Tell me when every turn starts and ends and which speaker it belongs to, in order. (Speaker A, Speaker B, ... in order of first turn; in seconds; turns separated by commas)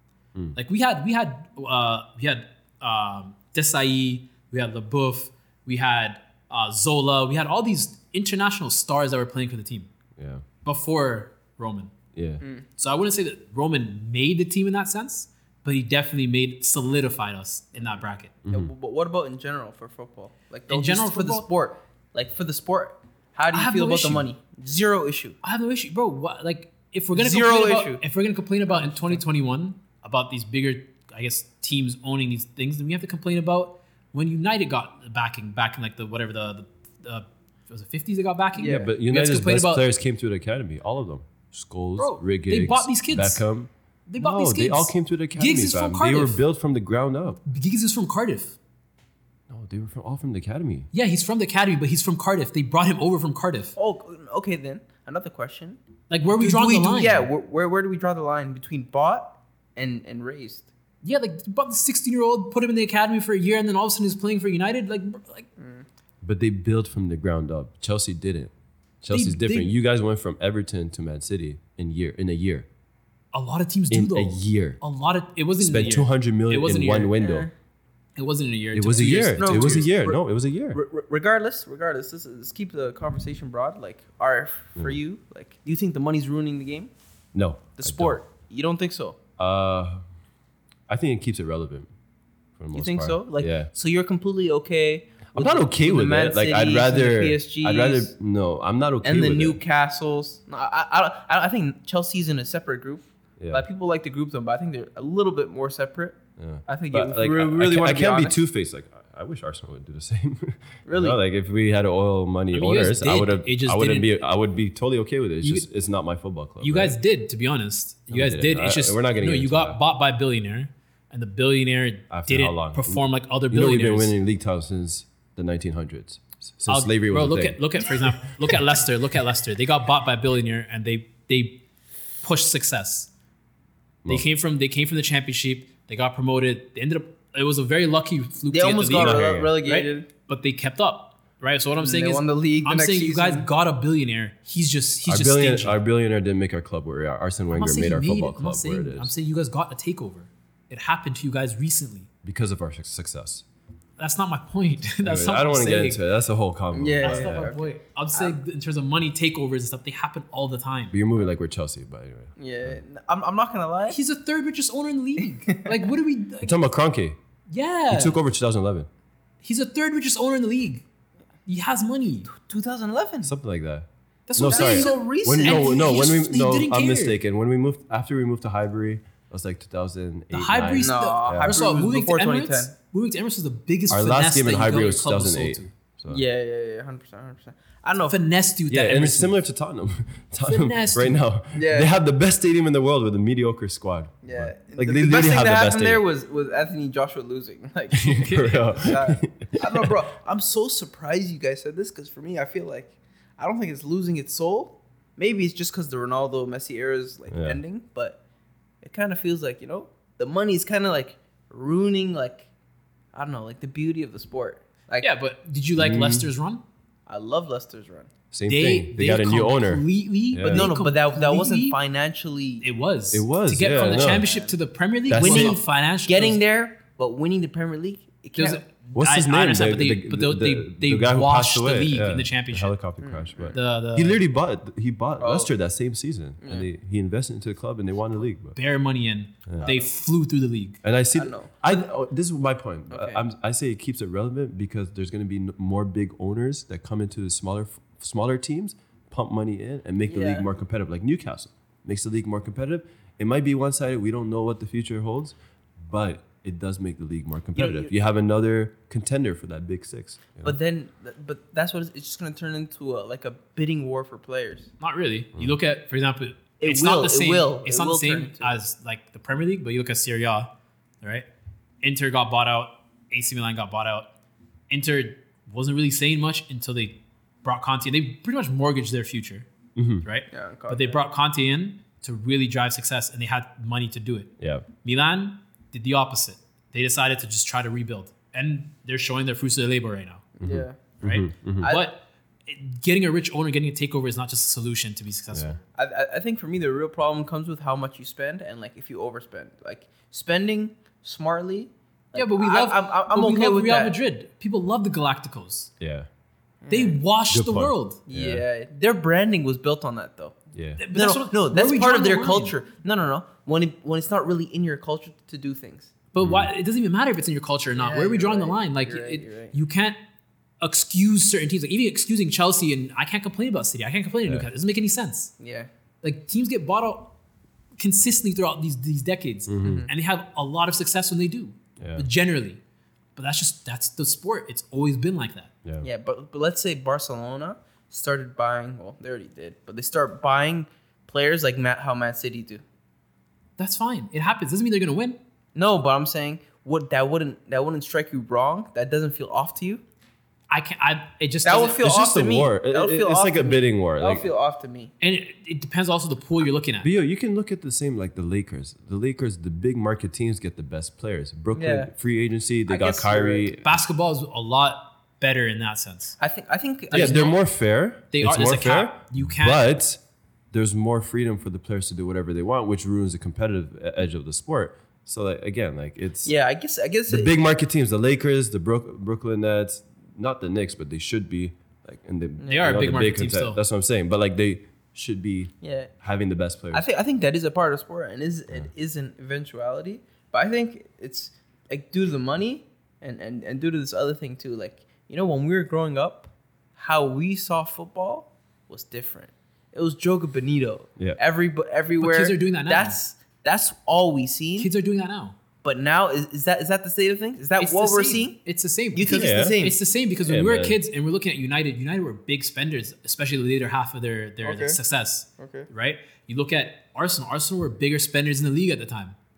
Speaker A: 0.6-9.9, Speaker B: 10.2-10.5, Speaker A: 10.7-11.9, Speaker B: 12.2-12.4, Speaker A: 12.8-18.3, Speaker B: 18.4-18.7, Speaker C: 18.5-25.4, Speaker A: 20.7-21.5, Speaker A: 23.5-24.3, Speaker A: 25.4-39.8, Speaker C: 27.1-28.0, Speaker C: 28.7-29.2, Speaker C: 38.5-38.9, Speaker B: 38.6-47.4, Speaker A: 42.0-43.4, Speaker A: 44.1-46.4, Speaker A: 47.5-48.6, Speaker B: 49.5-50.9, Speaker A: 50.9-53.7, Speaker C: 53.8-55.8, Speaker A: 56.1-57.3, Speaker C: 56.4-60.7, Speaker A: 61.0-65.5, Speaker C: 65.6-65.8, Speaker B: 66.2-72.7, Speaker A: 69.1-69.7, Speaker A: 73.3-77.1, Speaker B: 73.9-74.8, Speaker B: 75.6-77.5, Speaker C: 77.2-77.5, Speaker A: 78.2-79.9, Speaker B: 78.7-80.8, Speaker C: 79.3-86.9, Speaker B: 87.3-88.2, Speaker C: 87.8-89.2, Speaker B: 89.4-90.0, Speaker B: 90.9-91.9, Speaker B: 92.6-93.7, Speaker C: 92.7-98.1, Speaker B: 95.3-99.6, Speaker C: 99.0-108.4, Speaker B: 103.4-103.7, Speaker B: 106.4-117.0, Speaker C: 110.9-111.2, Speaker A: 112.5-114.1, Speaker A: 116.6-124.1, Speaker B: 118.1-119.8, Speaker B: 122.1-128.8, Speaker A: 126.7-131.6, Speaker A: 132.2-133.1, Speaker A: 134.1-145.8, Speaker C: 138.5-140.1, Speaker B: 138.9-139.6, Speaker C: 141.8-143.5, Speaker B: 145.1-149.1, Speaker A: 147.5-152.1, Speaker B: 152.2-153.4, Speaker A: 154.0-156.0, Speaker B: 155.0-157.5, Speaker C: 156.7-158.4, Speaker A: 157.0-161.0, Speaker B: 160.9-162.8, Speaker C: 162.4-164.0, Speaker A: 163.9-166.6, Speaker B: 166.4-167.2, Speaker A: 167.5-168.2, Speaker B: 167.9-168.9, Speaker A: 169.4-170.8, Speaker A: 171.5-172.3, Speaker C: 172.3-173.3, Speaker B: 173.2-181.6, Speaker A: 174.3-177.2, Speaker C: 174.5-175.9, Speaker A: 180.3-185.7, Speaker C: 180.8-182.7, Speaker B: 183.9-186.2, Speaker C: 186.1-188.2, Speaker A: 188.1-189.4, Speaker B: 188.7-196.0, Speaker A: 190.4-191.2, Speaker C: 191.5-191.9, Speaker C: 194.2-208.2, Speaker B: 197.9-199.9, Speaker A: 198.1-198.7, Speaker B: 207.3-207.6, Speaker C: 208.8-212.5, Speaker C: 213.1-215.1, Speaker A: 215.0-216.6, Speaker B: 215.8-216.3, Speaker C: 217.1-218.1, Speaker B: 218.3-220.7, Speaker A: 218.5-221.8, Speaker C: 220.4-222.7, Speaker A: 222.6-226.4, Speaker B: 223.1-224.3, Speaker C: 223.8-224.5, Speaker B: 225.1-225.6, Speaker C: 225.1-228.6, Speaker A: 228.4-232.7, Speaker B: 228.9-238.6, Speaker C: 233.0-233.6, Speaker A: 233.5-234.2, Speaker C: 235.2-235.5, Speaker C: 236.4-236.7, Speaker A: 238.6-240.8, Speaker B: 239.5-239.7, Speaker B: 240.8-260.6, Speaker C: 241.2-241.5, Speaker C: 242.9-243.2, Speaker C: 250.1-250.5, Speaker C: 257.6-257.9, Speaker C: 260.4-264.7, Speaker A: 264.8-270.5, Speaker C: 266.6-268.6, Speaker A: 271.8-274.1, Speaker A: 274.7-279.5, Speaker B: 279.8-280.1, Speaker A: 280.0-284.3, Speaker C: 280.3-281.0, Speaker B: 284.4-284.7, Speaker A: 284.8-290.2, Speaker C: 290.4-290.8, Speaker B: 290.4-291.7, Speaker A: 291.0-295.6, Speaker C: 291.6-291.9, Speaker B: 295.3-295.6, Speaker C: 295.8-304.0, Speaker A: 302.1-305.7, Speaker B: 305.8-306.1, Speaker C: 306.6-307.0, Speaker A: 306.7-308.0, Speaker B: 307.3-308.4, Speaker C: 308.1-310.4, Speaker B: 310.5-310.8, Speaker A: 310.8-312.5, Speaker C: 310.9-315.9, Speaker A: 316.1-320.0, Speaker B: 316.2-316.5, Speaker C: 317.8-319.6, Speaker A: 320.6-325.3, Speaker C: 325.4-325.7, Speaker A: 326.0-327.1, Speaker A: 327.8-332.6, Speaker B: 329.5-329.9, Speaker C: 329.6-329.9, Speaker B: 331.8-332.1, Speaker A: 333.2-335.5, Speaker C: 335.8-342.6, Speaker A: 343.6-345.2, Speaker C: 345.6-349.8, Speaker A: 350.5-351.8, Speaker C: 351.4-354.9, Speaker B: 351.8-354.3, Speaker A: 355.0-356.9, Speaker B: 356.8-363.8, Speaker C: 361.5-361.9, Speaker C: 362.7-363.5, Speaker A: 363.6-366.2, Speaker C: 366.2-367.3, Speaker A: 366.9-367.4, Speaker B: 366.9-370.0, Speaker A: 368.1-369.7, Speaker B: 370.5-376.3, Speaker C: 376.2-377.4, Speaker B: 377.1-386.9, Speaker C: 382.4-382.8, Speaker A: 382.5-383.6, Speaker C: 385.6-385.9, Speaker C: 386.7-404.7, Speaker A: 402.0-403.0, Speaker A: 404.6-405.4, Speaker C: 405.6-408.4, Speaker A: 407.6-419.2, Speaker C: 408.9-409.8, Speaker B: 409.1-409.6, Speaker B: 410.2-410.8, Speaker C: 414.4-414.8, Speaker C: 415.4-415.7